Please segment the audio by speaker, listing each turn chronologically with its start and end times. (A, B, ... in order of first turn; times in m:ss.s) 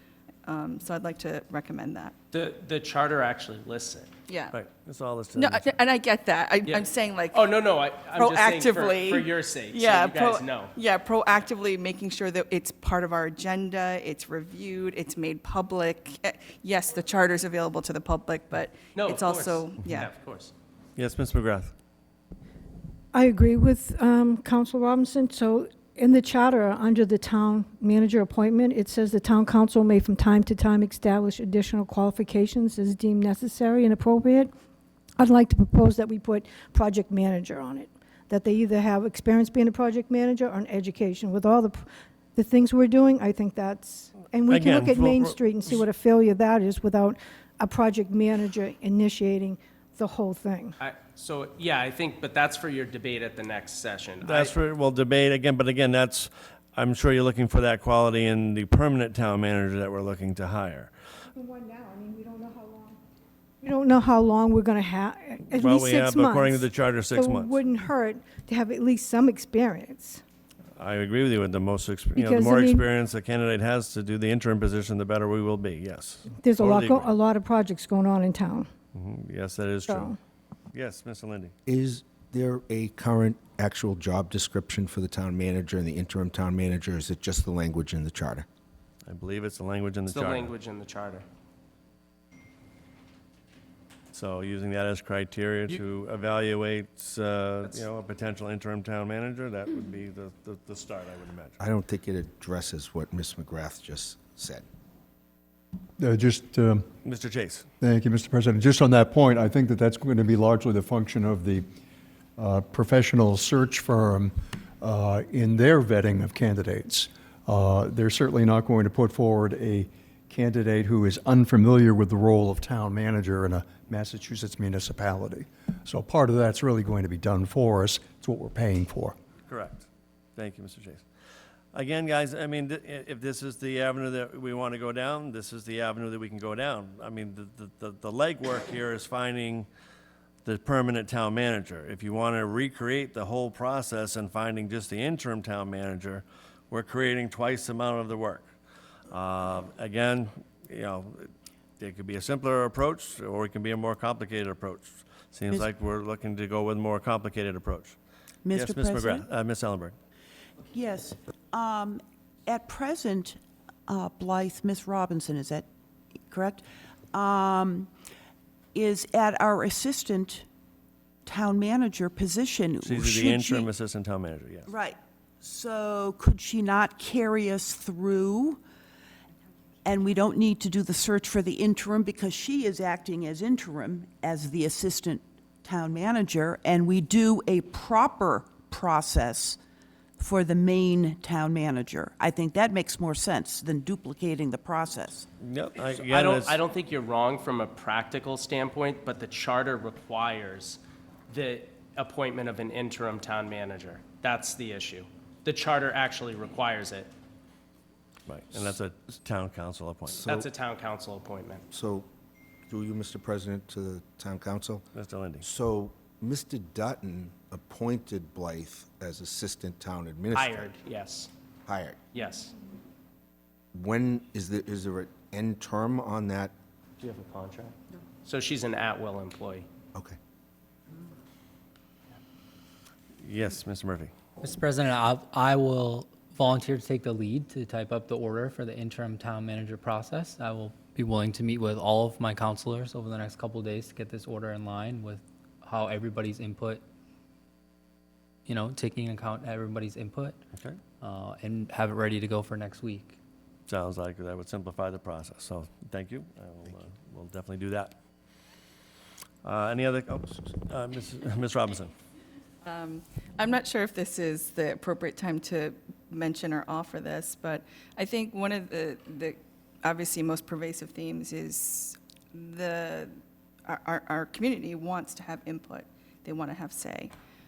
0:00.4-0:02.1 A
0:02.3-0:04.1 B
0:04.3-0:04.5 A
0:04.5-0:05.7 C
0:05.4-0:20.1 A
0:06.6-0:10.8 B
0:18.9-0:20.5 B
0:21.0-0:21.7 C
0:23.1-0:34.5 D
0:35.2-0:41.8 D
0:42.4-0:50.7 D
0:44.5-0:45.7 C
0:50.8-0:54.6 B
0:54.2-1:00.9 C
1:01.4-1:03.0 D
1:03.6-1:10.2 D
1:05.5-1:07.6 C
1:10.8-1:17.1 C
1:12.2-1:12.8 D
1:16.4-1:18.7 D
1:18.9-1:20.1 C
1:19.9-1:20.1 D
1:20.7-1:21.5 C
1:21.6-1:28.4 E
1:29.0-1:30.5 C
1:30.1-1:31.2 B
1:34.1-1:41.6 C
1:41.6-1:44.6 E
1:46.0-1:46.8 F
1:47.0-1:47.7 C
1:47.8-1:51.6 F
1:52.4-2:09.1 F
2:09.5-2:11.0 C
2:11.7-2:19.7 C
2:20.4-2:28.5 C
2:29.1-2:38.0 C
2:38.4-2:39.2 G
2:38.5-2:40.0 C
2:40.7-2:45.7 G
2:46.3-2:47.9 G
2:48.7-2:50.4 G
2:51.2-2:53.7 G
2:52.8-2:54.7 C
2:54.7-2:58.6 G
2:59.8-3:09.6 G
3:10.2-3:15.3 G
3:15.4-3:16.6 C
3:15.8-3:27.1 B
3:28.3-3:30.3 C
3:30.1-3:30.5 E
3:30.3-3:31.6 B
3:31.7-3:32.1 E
3:32.7-3:34.8 E
3:34.9-3:35.4 C
3:35.4-3:40.7 E
3:40.3-3:41.3 B
3:41.6-3:42.0 E
3:42.1-3:42.5 B
3:43.7-3:46.5 E
3:47.0-3:49.7 B
3:53.2-3:54.1 C
3:54.4-4:06.8 H
4:08.4-4:10.4 H
4:11.0-4:13.2 H
4:13.7-4:17.9 C
4:19.4-4:21.9 C
4:22.6-4:33.1 A
4:33.6-4:37.1 A